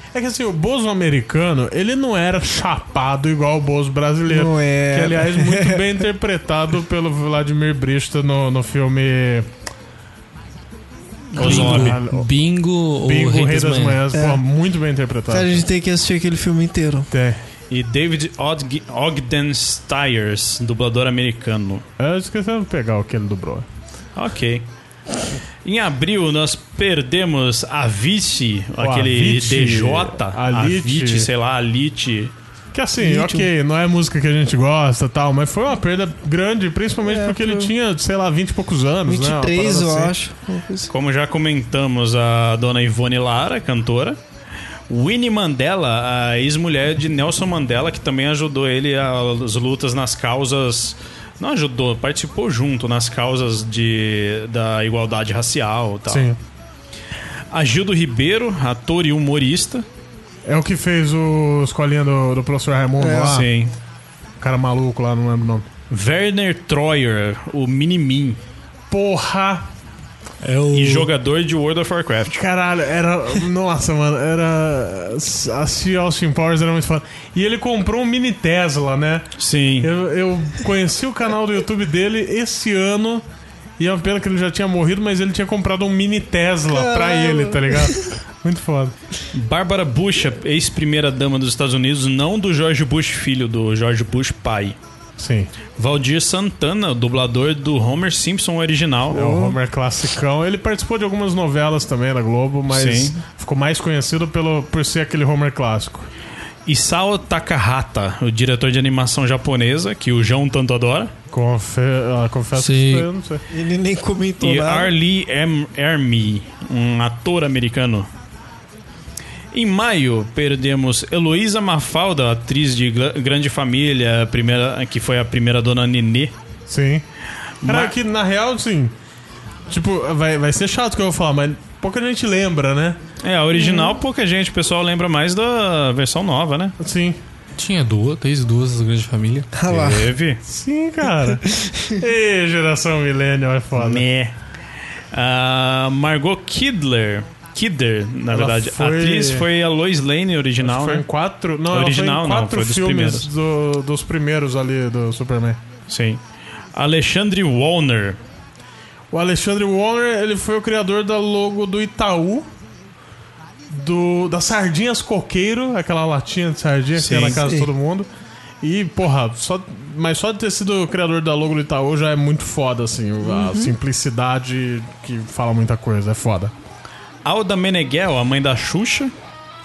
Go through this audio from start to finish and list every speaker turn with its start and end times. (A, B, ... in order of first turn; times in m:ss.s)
0:00.1-0:09.5 A
0:04.3-0:05.9 B
0:11.3-0:12.0 C
0:11.3-0:14.0 D
0:11.4-0:12.3 A
0:13.0-0:15.6 A
0:14.1-0:14.4 B
0:15.3-0:17.1 B
0:17.1-0:17.4 A
0:17.7-0:21.8 C
0:22.0-0:23.6 A
0:24.1-0:24.6 C
0:25.6-0:32.3 C
0:28.8-0:31.3 A
0:32.7-0:40.1 A
0:33.0-0:33.5 B
0:37.0-0:37.7 B
0:39.0-0:40.9 B
0:40.9-0:44.2 C
0:44.9-0:56.3 C
0:56.1-0:56.4 A
0:57.5-0:59.8 C
1:00.4-1:03.5 A
1:03.0-1:03.4 B
1:03.2-1:03.7 C
1:04.4-1:05.7 A
1:05.9-1:08.4 C
1:08.9-1:09.7 A
1:10.5-1:11.1 A
1:10.7-1:12.4 C
1:12.3-1:19.3 A
1:19.4-1:19.9 C
1:19.8-1:23.2 A
1:23.8-1:28.9 A
1:26.7-1:28.0 B
1:29.3-1:34.8 C
1:35.2-1:35.5 A
1:35.8-1:39.3 C
1:39.1-1:39.6 B
1:39.1-1:46.1 A
1:42.7-1:43.2 C
1:46.6-1:51.1 C
1:51.3-1:53.4 A
1:52.5-1:53.1 D
1:53.5-1:54.9 B
1:54.4-1:58.1 C
1:59.5-2:06.3 C
2:06.7-2:07.0 A
2:07.6-2:07.9 C
2:07.6-2:08.9 A
2:09.7-2:13.0 A
2:13.2-2:16.8 C
2:16.8-2:17.2 A
2:17.6-2:19.5 D
2:19.5-2:20.1 B
2:19.7-2:20.4 C
2:20.4-2:21.4 A
2:21.2-2:22.0 B
2:22.0-2:24.0 A
2:23.8-2:24.3 C
2:25.1-2:31.0 C
2:28.3-2:29.5 A
2:30.6-2:35.6 A
2:31.7-2:33.3 C
2:35.9-2:36.2 C
2:36.7-2:38.2 C
2:39.1-2:42.5 A
2:43.7-2:48.1 A
2:47.0-2:47.4 C
2:47.4-2:47.7 B
2:48.6-2:56.5 A
2:53.2-2:53.7 B
2:57.2-2:59.1 C